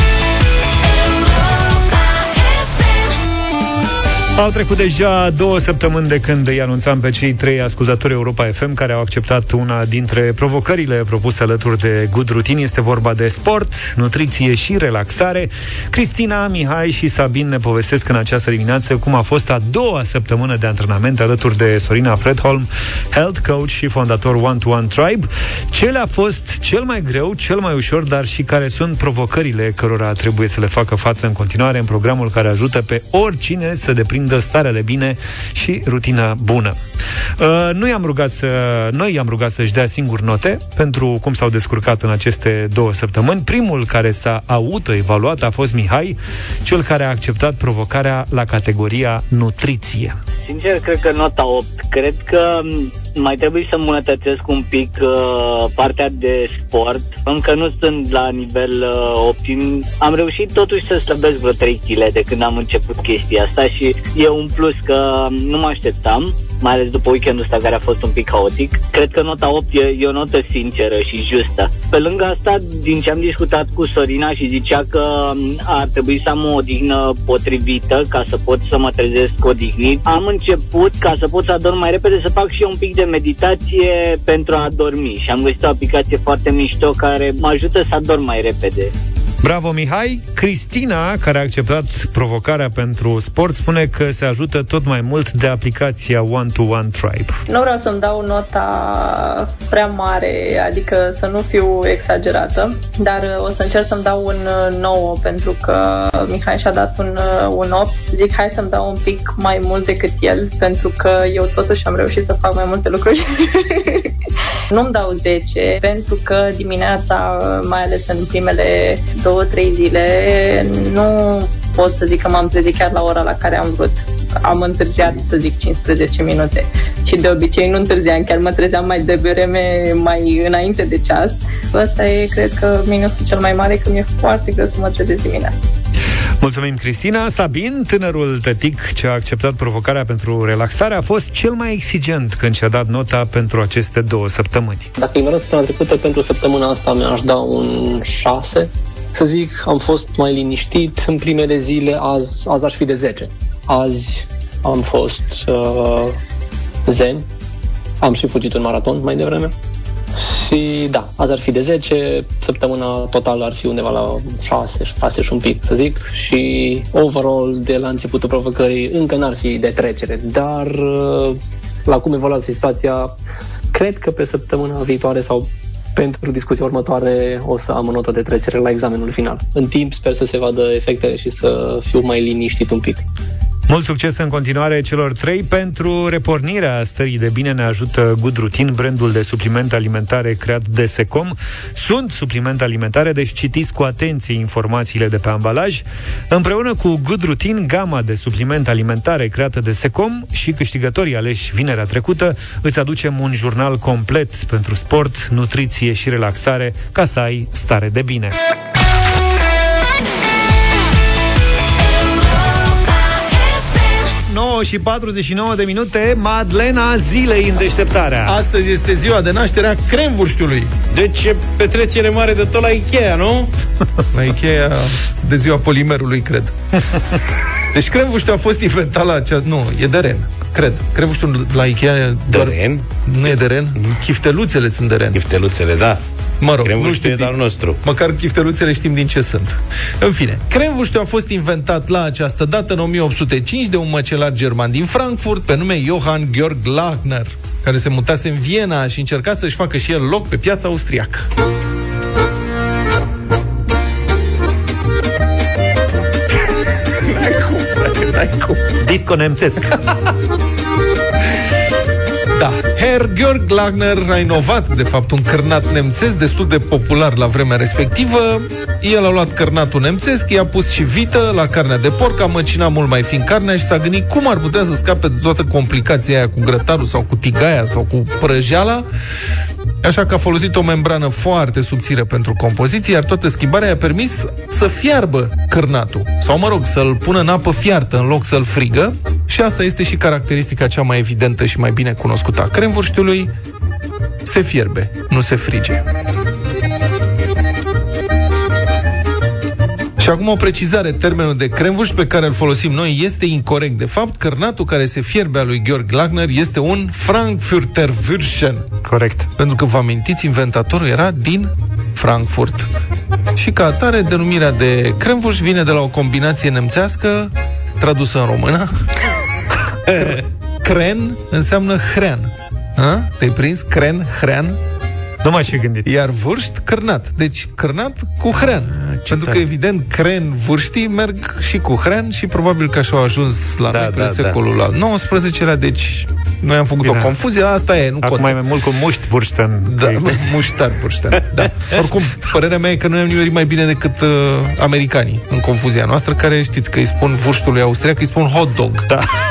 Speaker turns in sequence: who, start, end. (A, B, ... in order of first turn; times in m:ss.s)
0:04.4-0:36.8 A
0:37.4-0:50.2 A
0:50.5-1:28.9 B
1:29.4-1:37.4 A
1:37.5-1:54.1 C
1:54.7-2:15.5 C
2:16.4-2:24.9 A
2:25.0-2:36.2 D
2:36.9-2:37.3 D
2:38.0-2:39.5 D
2:40.2-2:53.1 D
2:53.7-3:03.0 D
3:03.7-3:28.4 A
3:34.3-3:38.4 A
3:38.3-3:40.7 E
3:40.9-3:43.5 F
3:44.1-3:46.5 E
3:47.7-3:55.2 E
3:52.3-3:52.8 F
3:55.1-3:56.0 F
3:56.4-4:11.3 E
3:56.6-3:57.8 F
4:16.9-4:18.6 E
4:18.8-4:19.8 A
4:22.4-4:38.9 E
4:39.8-4:53.3 E
4:54.2-4:55.8 E
5:00.0-5:08.7 E
5:08.8-5:09.3 A
5:09.4-5:12.7 E
5:13.4-5:18.9 E
5:19.9-5:24.6 E
5:25.2-5:25.9 A
5:25.9-5:38.4 E
5:28.5-5:29.4 F
5:33.7-5:34.4 F
5:36.8-5:37.1 A
5:38.0-5:40.2 A
5:39.6-5:48.9 E